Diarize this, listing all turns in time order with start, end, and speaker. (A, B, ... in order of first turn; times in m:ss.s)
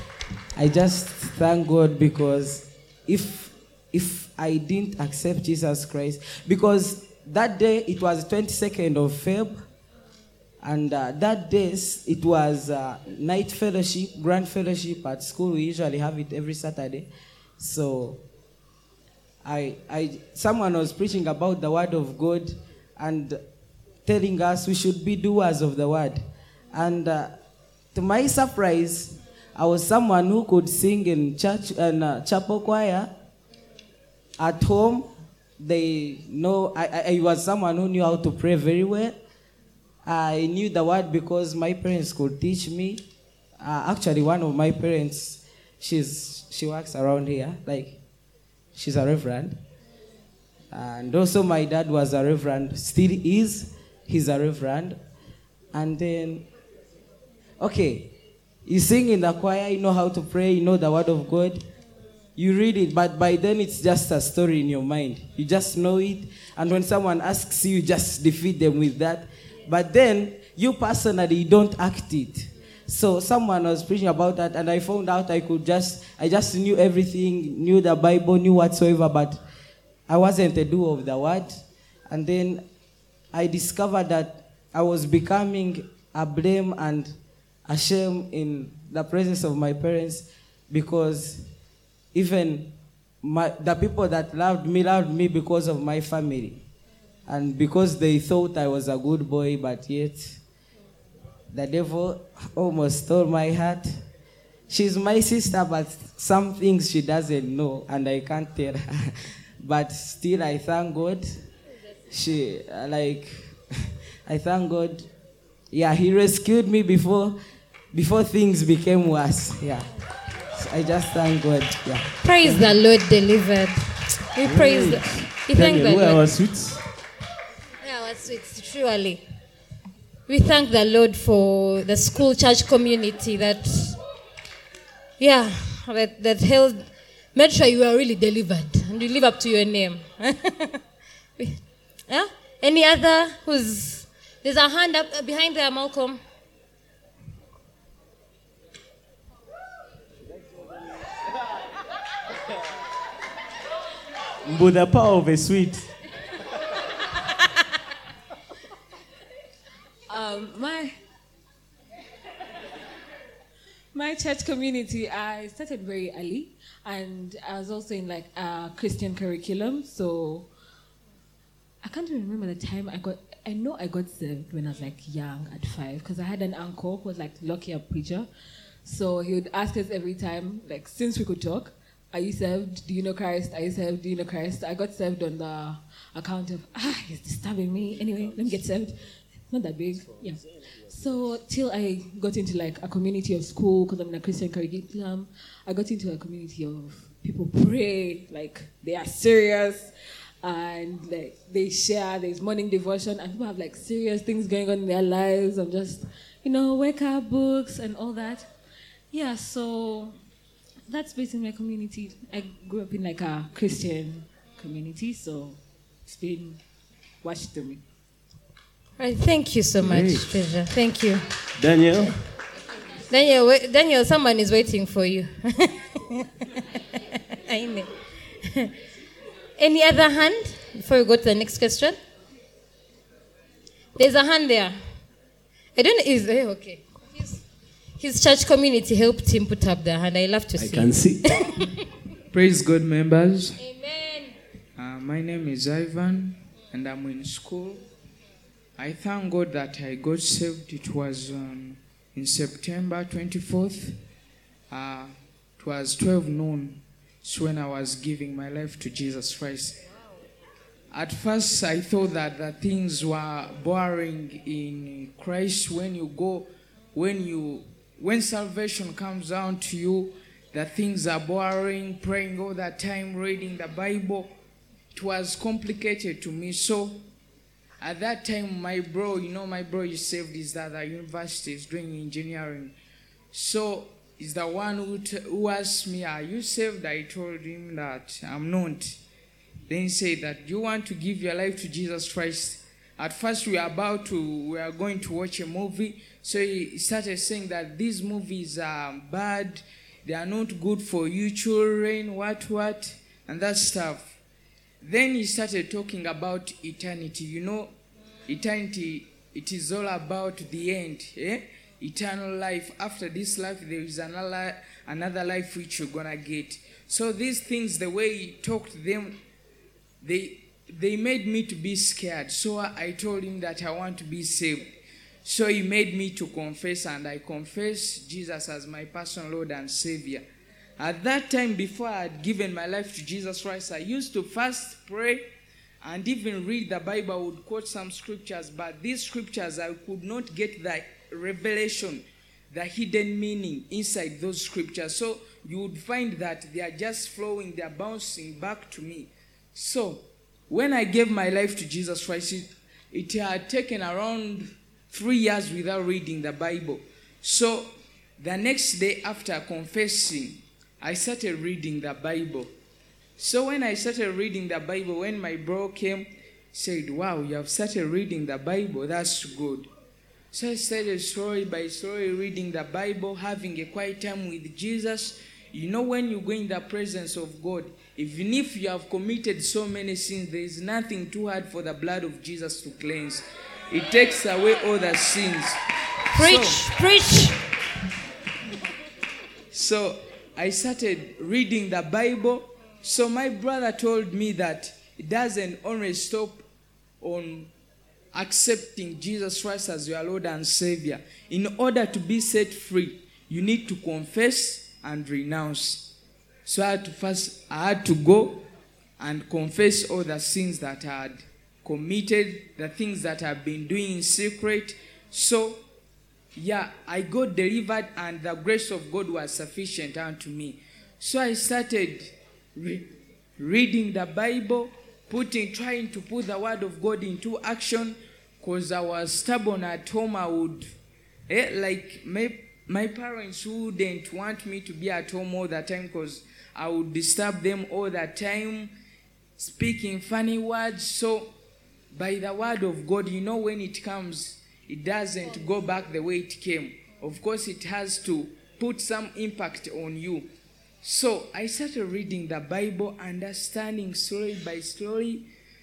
0:00.6-0:09.7 A
0:10.6-0:18.2 A
0:19.4-0:23.4 A
0:24.0-0:27.4 A
0:27.9-0:33.1 A
0:34.4-0:39.2 A
0:40.0-0:43.0 A
0:43.6-0:48.0 A
0:48.7-0:49.6 A
0:50.7-0:55.0 A
0:55.7-0:56.5 A
0:57.6-1:01.7 A
1:02.4-1:19.4 A
1:20.1-1:22.6 A
1:23.3-1:31.5 A
1:32.1-1:36.6 A
1:37.2-1:40.4 A
1:41.5-1:44.0 A
1:44.7-1:51.5 A
1:52.1-1:53.6 A
1:54.2-1:55.1 A
1:55.7-1:57.4 A
1:57.9-1:59.9 A
2:00.5-2:02.8 A
2:02.2-2:06.3 B
2:04.4-2:06.8 C
2:07.8-2:09.2 B
2:10.3-2:14.0 B
2:15.2-2:20.8 B
2:21.4-2:26.2 B
2:34.4-2:35.9 C
2:40.1-2:41.0 D
2:43.9-2:50.5 D
2:51.8-2:58.3 D
2:58.8-3:19.9 D
3:10.1-3:10.9 C
3:20.4-3:28.5 D
3:29.1-3:30.2 D
3:30.9-3:36.6 D
3:37.2-3:37.8 D
3:39.0-3:41.4 B
3:39.8-3:40.5 C
3:41.6-3:42.2 C
3:43.1-3:47.9 B
3:48.4-3:48.7 B
3:49.6-3:52.0 B
3:54.0-3:54.8 B
3:55.8-3:57.4 B
3:58.0-4:01.5 B
4:00.6-4:01.2 C
4:02.3-4:03.6 E
4:03.6-4:04.3 B
4:04.8-4:07.8 E
4:08.8-4:14.0 E
4:14.7-4:19.8 E
4:20.9-4:34.3 E
4:34.9-4:37.0 E
4:37.8-4:42.7 E
4:43.3-4:49.0 E
4:49.7-5:04.2 E
5:04.8-5:07.7 E
5:08.3-5:19.2 E
5:20.0-5:30.2 E
5:30.8-5:35.2 E
5:35.8-6:02.5 E
6:03.2-6:09.7 E
6:10.3-6:25.6 E
6:26.1-6:26.6 E
6:26.1-6:27.4 B
6:29.5-6:36.4 E
6:37.0-6:37.5 E
6:38.1-6:45.9 E
6:46.4-6:48.4 E
6:49.0-6:55.6 E
6:56.3-7:10.7 E
7:11.3-7:18.7 E
7:19.4-7:21.3 E
7:21.9-7:30.3 E
7:30.8-7:35.3 E